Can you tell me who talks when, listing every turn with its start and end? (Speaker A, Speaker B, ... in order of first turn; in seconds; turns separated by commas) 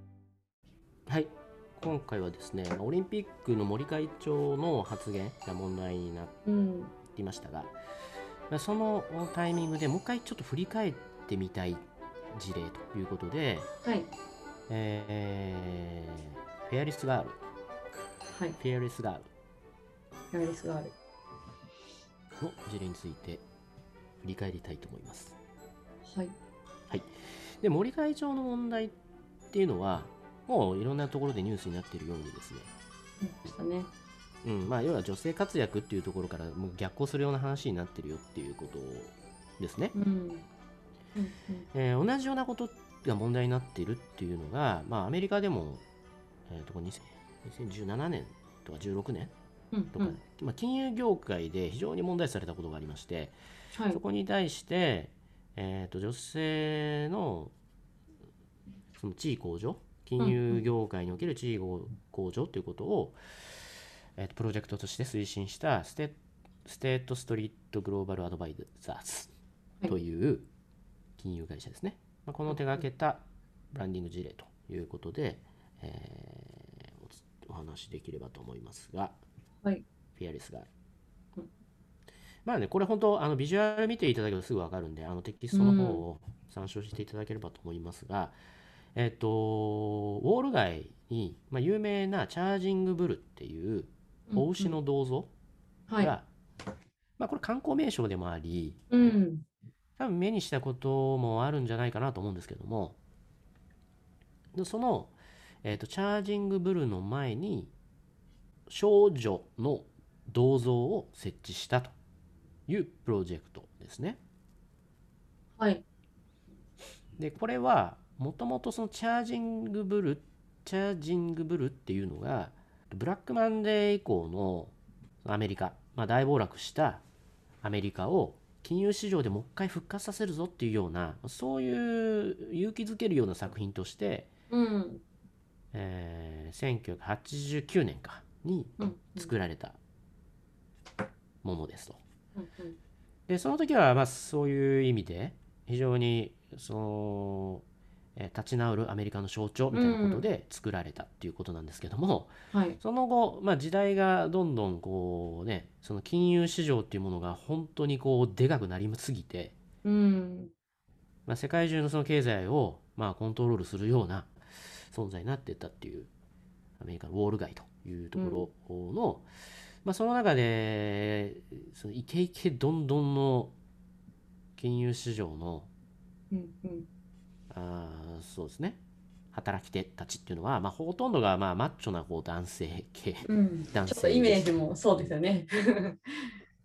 Speaker A: 1.1-6.3, Speaker B: 6.4-6.9, Speaker A: 7.1-7.7, Speaker A: 8.5-13.7, Speaker B: 13.8-14.1, Speaker A: 14.7-17.4, Speaker B: 18.3-18.6, Speaker A: 18.6-19.3, Speaker B: 20.3-20.9, Speaker A: 22.4-23.4, Speaker A: 24.2-25.4, Speaker B: 26.0-26.3, Speaker A: 26.9-28.9, Speaker A: 29.5-32.7, Speaker B: 33.2-33.9, Speaker A: 34.4-39.9, Speaker B: 39.9-40.4, Speaker B: 41.1-41.7, Speaker A: 41.7-45.8, Speaker A: 46.5-49.3, Speaker B: 49.7-50.2, Speaker A: 49.9-53.4, Speaker B: 53.7-54.0, Speaker A: 53.9-57.5, Speaker A: 58.9-63.2, Speaker B: 60.2-60.7, Speaker A: 64.2-69.3, Speaker A: 69.8-70.5, Speaker A: 71.2-79.2, Speaker B: 72.5-72.8, Speaker A: 80.2-80.7, Speaker A: 82.4-88.4, Speaker B: 85.5-86.0, Speaker A: 88.9-95.3, Speaker B: 94.3-94.8, Speaker B: 95.9-96.1, Speaker A: 96.0-96.3, Speaker A: 97.2-98.9, Speaker B: 98.9-99.5, Speaker A: 100.0-103.0, Speaker A: 104.5-107.7, Speaker A: 108.7-111.9, Speaker A: 112.7-114.2, Speaker B: 115.6-115.8, Speaker A: 117.2-127.0, Speaker A: 127.6-134.3, Speaker B: 134.5-135.0, Speaker A: 135.7-139.8, Speaker B: 138.8-139.3, Speaker A: 141.4-142.0, Speaker B: 142.3-142.8, Speaker A: 143.3-147.6, Speaker A: 148.2-159.6, Speaker B: 149.7-150.3, Speaker B: 152.5-152.8, Speaker B: 159.8-160.5, Speaker A: 161.2-166.1, Speaker A: 166.8-169.3, Speaker B: 168.2-168.5, Speaker A: 169.8-173.5, Speaker A: 174.6-175.7, Speaker B: 176.3-176.9, Speaker A: 177.5-178.8, Speaker A: 179.3-184.5, Speaker B: 183.2-186.3